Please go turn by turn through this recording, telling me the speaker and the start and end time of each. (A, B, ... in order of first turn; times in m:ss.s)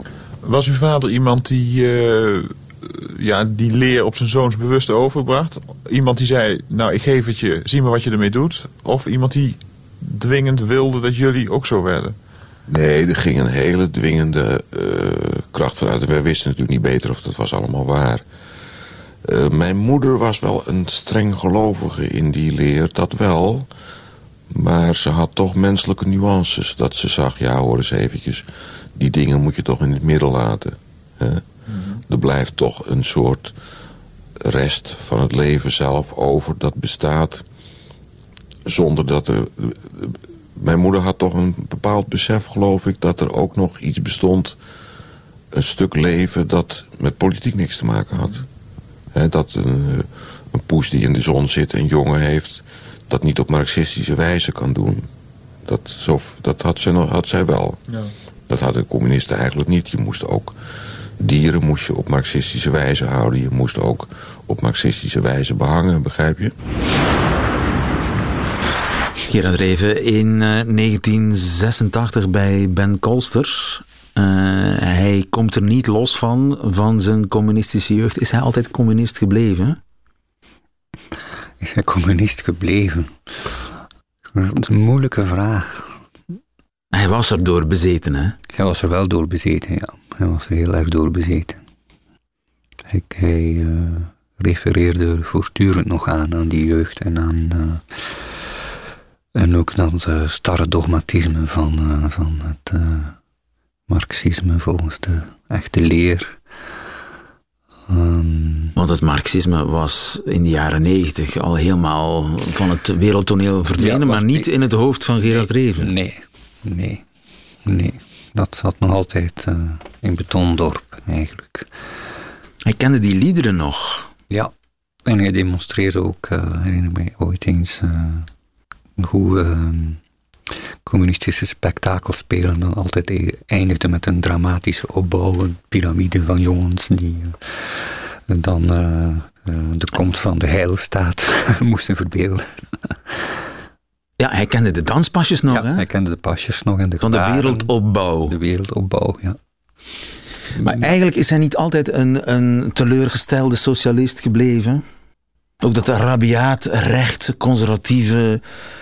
0:00.4-0:12.1 A
0:12.7-0:18.2 B
0:19.2-0:23.7 B
0:24.5-0:28.4 B
0:29.0-0:31.4 B
0:32.1-0:33.5 B
0:34.4-0:37.4 B
0:38.7-0:44.6 B
0:45.5-0:48.4 B
0:49.1-0:55.1 B
0:55.6-0:57.8 B
0:58.5-1:00.5 B
1:01.2-1:06.5 B
1:09.3-1:19.8 C
1:21.6-1:23.6 D
1:24.3-1:26.0 D
1:26.9-1:28.4 C
1:28.5-1:31.6 D
1:32.9-1:38.5 D
1:39.3-1:43.2 D
1:43.9-1:46.4 D
1:47.9-1:48.7 D
1:48.8-1:55.9 C
1:53.8-1:54.5 D
1:55.2-1:57.0 D
1:57.6-2:01.7 D
2:02.6-2:04.1 C
2:05.0-2:08.3 D
2:09.0-2:10.0 D
2:10.8-2:23.3 D
2:24.2-2:25.9 C
2:25.5-2:29.4 D
2:27.0-2:28.4 C
2:30.6-2:34.8 C
2:35.6-2:38.4 C